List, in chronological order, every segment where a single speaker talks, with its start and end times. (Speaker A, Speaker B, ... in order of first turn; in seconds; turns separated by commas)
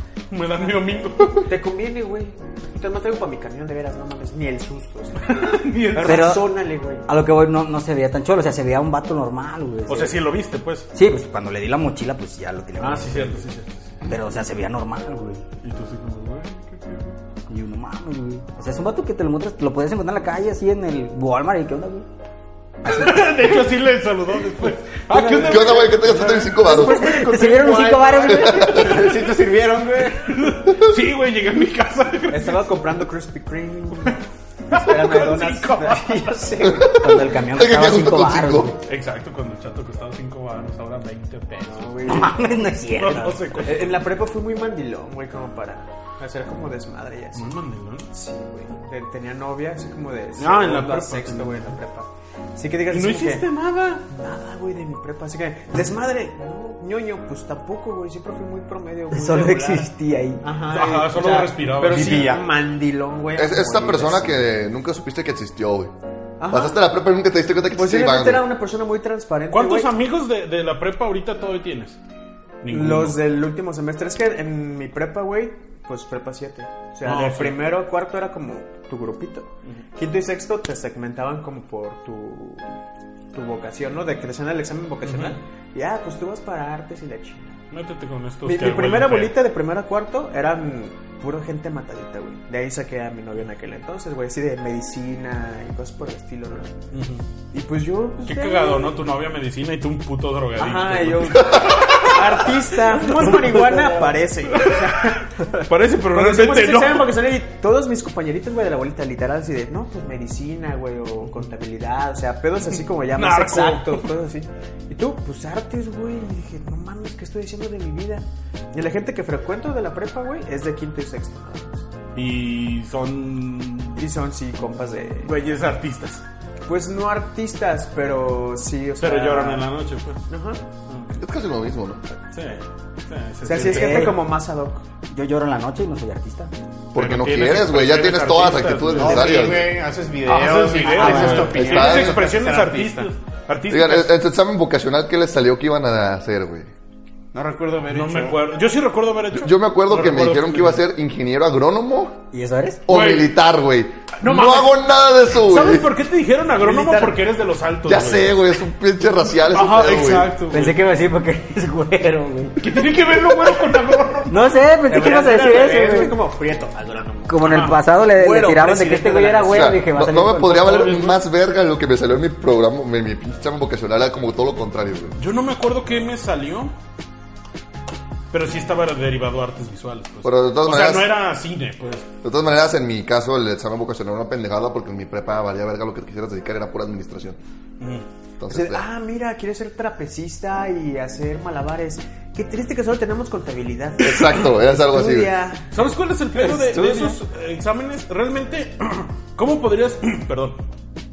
Speaker A: 0.3-1.4, Speaker B: 1.4-7.1, Speaker A: 5.2-6.4, Speaker C: 6.0-6.5, Speaker C: 7.0-10.2, Speaker A: 9.9-10.9, Speaker C: 10.9-13.4, Speaker A: 12.8-13.9, Speaker C: 14.1-15.4, Speaker A: 15.6-17.1, Speaker C: 17.5-22.1, Speaker C: 22.8-23.3, Speaker A: 22.8-26.4, Speaker B: 25.1-28.8, Speaker D: 25.4-27.0, Speaker C: 26.7-29.1, Speaker D: 28.5-28.8, Speaker E: 28.5-30.3, Speaker A: 30.2-32.6, Speaker B: 32.3-34.2, Speaker A: 34.7-36.7, Speaker B: 34.7-37.3, Speaker D: 36.7-38.7, Speaker C: 36.9-38.8, Speaker A: 38.9-42.3, Speaker B: 41.6-47.5, Speaker C: 42.0-43.4, Speaker A: 42.9-44.0, Speaker A: 47.3-48.1, Speaker B: 48.1-53.5, Speaker A: 50.4-51.7, Speaker A: 52.9-54.0, Speaker B: 54.1-64.4, Speaker C: 59.1-60.4, Speaker A: 60.7-62.3, Speaker E: 61.8-62.5, Speaker D: 63.4-65.9, Speaker B: 66.4-66.8, Speaker D: 66.5-68.4, Speaker B: 67.7-69.9, Speaker A: 69.5-72.0, Speaker A: 72.6-73.2, Speaker B: 72.7-82.8, Speaker A: 77.0-77.6, Speaker B: 83.3-87.6, Speaker A: 85.0-85.3, Speaker A: 87.7-89.3, Speaker B: 88.4-96.7, Speaker A: 96.9-97.2, Speaker B: 97.5-98.9, Speaker A: 98.2-102.2, Speaker B: 100.5-121.8, Speaker D: 101.6-101.8, Speaker A: 103.1-105.1, Speaker A: 105.7-107.1, Speaker A: 113.2-114.1, Speaker A: 122.1-124.0, Speaker B: 124.0-125.3, Speaker A: 125.2-126.2, Speaker B: 126.7-129.7, Speaker A: 129.0-130.2, Speaker B: 130.3-130.6, Speaker D: 131.2-132.0, Speaker A: 132.3-134.2, Speaker B: 133.4-134.8, Speaker C: 133.7-134.2, Speaker C: 135.1-136.5, Speaker D: 136.9-139.7, Speaker A: 136.9-139.7, Speaker E: 139.0-143.1, Speaker A: 140.2-144.1, Speaker C: 140.8-141.6, Speaker D: 141.5-142.3, Speaker D: 143.7-146.7, Speaker E: 147.3-148.4, Speaker A: 147.9-150.8, Speaker D: 149.3-152.2, Speaker C: 152.3-152.8, Speaker D: 152.9-155.9, Speaker A: 152.9-153.3, Speaker A: 154.2-154.8, Speaker A: 155.3-158.4, Speaker B: 156.6-157.2, Speaker D: 157.9-160.3, Speaker A: 159.5-160.8, Speaker C: 160.5-162.7, Speaker A: 162.6-164.5, Speaker C: 164.3-166.1, Speaker B: 164.9-169.7, Speaker C: 167.2-170.8, Speaker A: 167.4-167.8, Speaker D: 169.5-175.2, Speaker A: 170.5-171.2, Speaker A: 175.2-176.7, Speaker A: 178.3-182.1, Speaker D: 180.2-181.1, Speaker D: 182.2-187.4, Speaker A: 187.8-188.0, Speaker D: 188.4-188.8, Speaker B: 188.5-195.7, Speaker D: 194.0-195.3, Speaker A: 195.7-200.6, Speaker B: 196.3-197.2